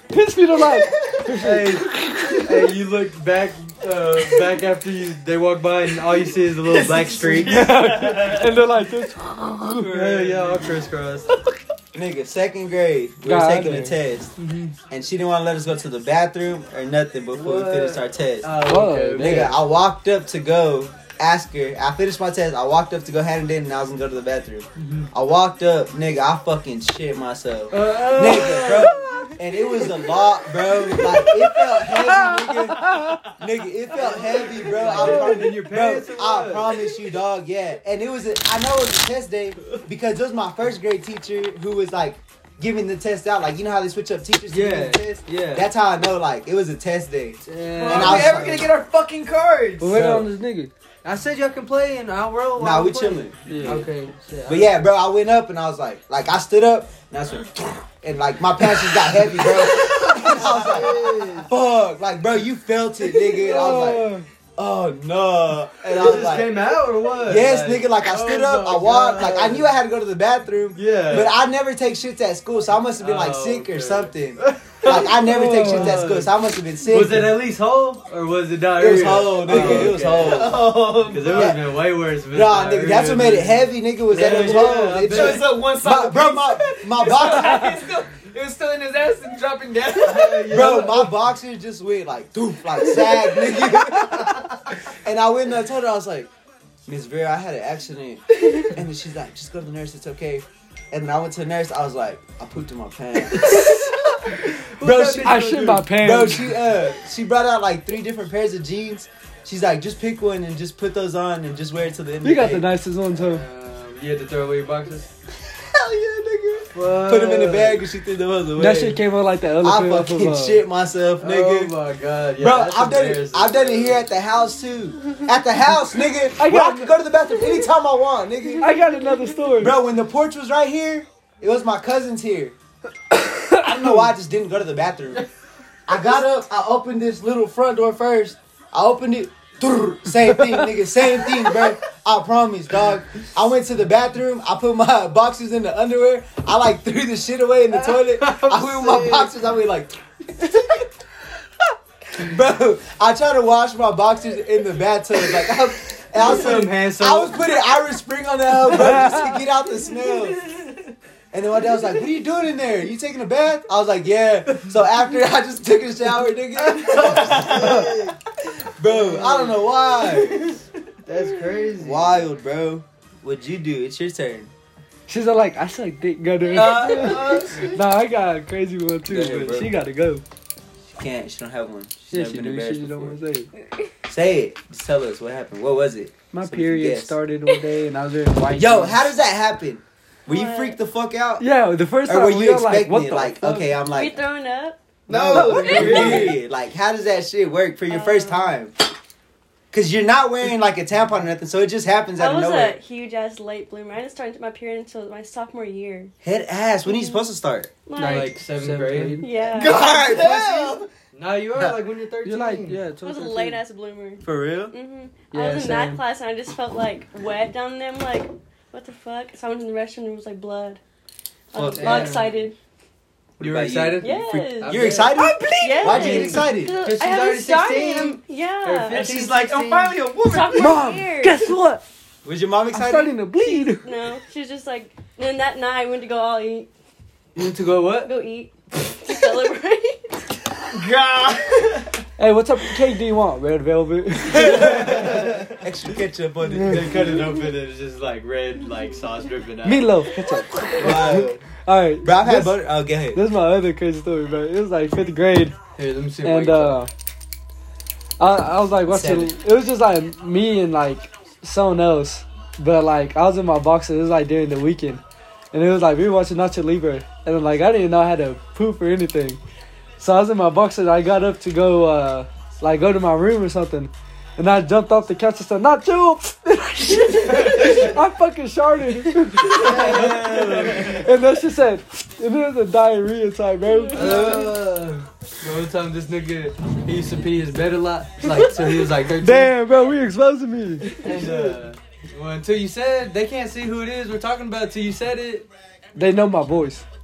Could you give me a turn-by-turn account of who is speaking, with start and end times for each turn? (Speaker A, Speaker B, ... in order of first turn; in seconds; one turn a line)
Speaker A: 0.1-2.5
Speaker B: 0.7-1.4
Speaker C: 1.3-7.7
Speaker B: 6.6-8.6
Speaker A: 7.5-10.0
Speaker C: 9.8-11.3
Speaker D: 9.8-10.7
Speaker D: 11.9-14.3
Speaker A: 13.2-14.0
Speaker C: 14.4-14.7
Speaker D: 14.9-18.5
Speaker C: 17.3-19.6
Speaker A: 18.6-19.5
Speaker D: 19.2-48.7
Speaker C: 24.8-25.1
Speaker C: 27.7-29.3
Speaker A: 31.8-33.2
Speaker C: 33.9-36.8
Speaker A: 35.0-35.3
Speaker C: 44.5-45.7
Speaker C: 47.5-48.6
Speaker B: 47.8-50.0
Speaker A: 49.8-50.7
Speaker C: 49.9-50.3
Speaker C: 51.0-54.7
Speaker D: 52.6-53.3
Speaker A: 53.5-53.9
Speaker D: 54.5-66.5
Speaker C: 59.9-61.5
Speaker A: 63.4-64.2
Speaker C: 65.9-69.7
Speaker D: 67.2-77.4
Speaker C: 70.7-71.4
Speaker C: 73.0-85.6
Speaker A: 75.2-76.0
Speaker D: 78.8-80.7
Speaker B: 79.5-81.5
Speaker D: 81.3-81.7
Speaker D: 82.3-87.7
Speaker B: 84.2-90.8
Speaker C: 90.0-91.1
Speaker D: 90.5-94.4
Speaker D: 95.0-96.3
Speaker D: 96.8-112.7
Speaker C: 104.8-105.6
Speaker A: 105.1-106.5
Speaker A: 112.2-113.4
Speaker C: 113.1-115.1
Speaker D: 115.8-119.0
Speaker C: 116.7-117.9
Speaker A: 118.5-120.6
Speaker D: 119.6-121.7
Speaker C: 121.2-124.0
Speaker D: 122.4-128.8
Speaker A: 126.4-126.9
Speaker A: 128.6-129.8
Speaker D: 129.6-132.5
Speaker A: 133.1-133.8
Speaker D: 133.6-135.2
Speaker D: 135.9-150.8
Speaker C: 147.7-149.3
Speaker D: 152.1-160.4
Speaker C: 156.1-157.5
Speaker A: 158.9-159.3
Speaker D: 161.3-168.1
Speaker B: 166.9-167.9
Speaker D: 168.8-170.5
Speaker C: 168.9-169.6
Speaker C: 171.1-172.2
Speaker D: 171.8-174.5
Speaker A: 175.1-180.2
Speaker D: 176.5-177.5
Speaker B: 176.9-177.8
Speaker D: 179.1-179.7
Speaker D: 180.9-183.2
Speaker A: 182.1-183.5
Speaker D: 184.1-187.1
Speaker A: 186.3-189.1
Speaker D: 188.5-191.5
Speaker E: 190.3-190.8
Speaker A: 191.4-193.8
Speaker D: 192.0-194.2
Speaker E: 193.9-194.8
Speaker B: 195.1-196.4
Speaker D: 195.1-198.7
Speaker A: 195.3-196.3
Speaker C: 195.6-196.3
Speaker E: 197.9-198.4
Speaker D: 199.7-202.8
Speaker E: 202.2-206.1
Speaker D: 206.2-207.7
Speaker E: 206.8-207.2
Speaker E: 207.8-208.3
Speaker A: 207.9-209.3
Speaker C: 208.0-209.2
Speaker E: 209.2-209.9
Speaker D: 209.4-210.9
Speaker B: 209.6-210.8
Speaker C: 211.1-212.8
Speaker A: 212.2-213.6
Speaker E: 213.0-220.8
Speaker D: 214.2-214.7
Speaker A: 215.3-216.0
Speaker E: 221.5-222.5
Speaker D: 221.5-222.1
Speaker C: 221.6-222.3
Speaker A: 221.8-222.2
Speaker D: 223.4-224.0
Speaker C: 223.4-225.2
Speaker E: 224.0-224.9
Speaker D: 224.6-226.8
Speaker A: 225.2-226.3
Speaker E: 225.6-229.0
Speaker C: 225.8-230.0
Speaker B: 228.9-230.8
Speaker E: 230.2-231.4
Speaker A: 230.5-231.8
Speaker D: 232.2-233.2
Speaker A: 232.7-233.9
Speaker E: 233.4-236.7
Speaker C: 237.3-238.1
Speaker E: 238.0-240.3
Speaker B: 240.7-242.0
Speaker A: 242.2-245.1
Speaker D: 244.3-247.1
Speaker A: 246.5-246.8
Speaker C: 246.6-249.9
Speaker A: 249.6-255.6
Speaker D: 250.8-251.4
Speaker D: 252.0-253.2
Speaker C: 255.8-256.8
Speaker A: 256.2-256.9
Speaker A: 258.2-269.4
Speaker D: 258.9-259.4
Speaker A: 270.0-284.5
Speaker C: 279.5-281.0
Speaker E: 283.7-284.4
Speaker C: 283.9-289.6
Speaker A: 288.2-288.5
Speaker A: 289.2-291.0
Speaker C: 290.9-295.5
Speaker A: 295.9-296.8